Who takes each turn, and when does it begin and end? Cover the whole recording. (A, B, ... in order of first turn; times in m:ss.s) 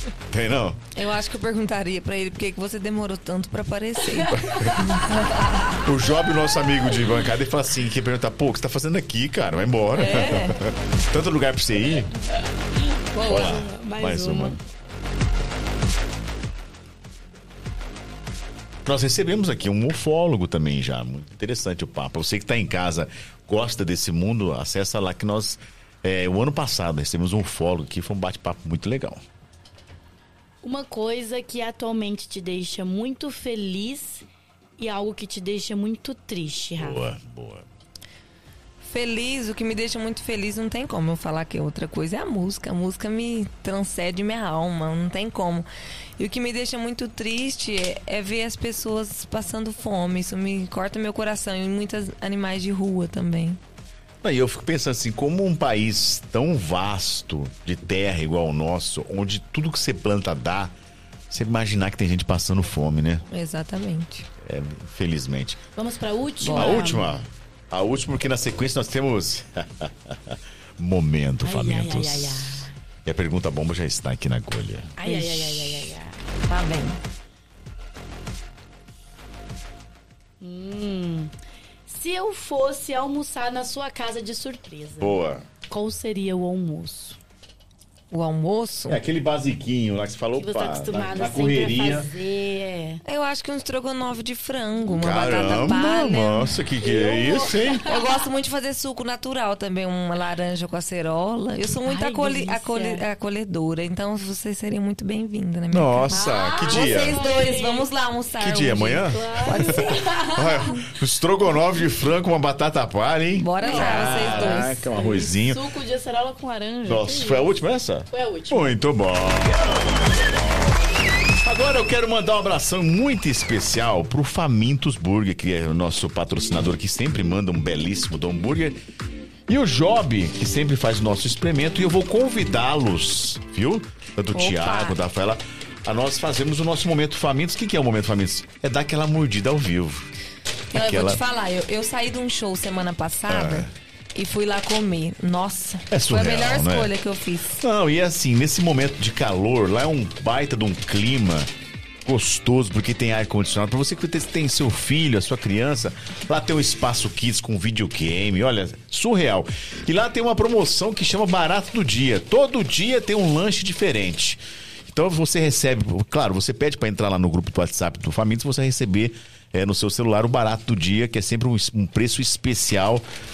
0:00.3-0:00.8 A
0:00.9-0:05.8 B
0:04.4-0:04.8 A
0:05.8-0:12.1 A
0:09.9-0:10.6 B
0:13.1-0:14.6 C
0:13.2-0:13.5 B
0:13.3-0:14.6 A
0:18.8-0:29.2 A
0:30.6-0:34.3 C
0:34.8-0:37.0 C
0:36.8-0:37.7 A
0:38.8-0:45.6 B
0:46.2-0:53.6 B
0:54.2-1:00.7 A
1:01.3-1:03.2 A
1:03.3-1:04.3 B
1:04.4-1:05.6 A
1:05.8-1:07.1 C
1:06.4-1:07.0 B
1:06.5-1:14.9 A
1:11.4-1:12.8 C
1:15.0-1:16.2 C
1:15.0-1:15.9 B
1:16.5-1:17.0 B
1:20.4-1:21.3 C
1:21.9-1:27.2 C
1:25.0-1:25.4 A
1:28.1-1:29.0 B
1:28.9-1:32.1 A
1:30.4-1:33.0 C
1:33.0-1:36.6 B
1:34.9-1:37.9 A
1:36.8-1:38.1 C
1:37.9-1:50.1 B
1:41.8-1:43.0 C
1:45.7-1:47.2 A
1:46.1-1:47.9 C
1:48.4-1:49.7 A
1:48.9-1:50.8 C
1:50.3-1:55.6 A
1:53.4-1:54.9 B
1:53.6-1:57.6 C
1:56.8-2:00.8 A
1:58.1-1:58.7 C
2:01.4-2:08.8 A
2:09.5-2:20.1 A
2:14.3-2:14.9 B
2:20.7-2:27.6 B
2:20.7-2:21.2 A
2:23.3-2:23.7 A
2:25.9-2:26.9 A
2:27.6-2:31.5 A
2:32.0-2:53.0 A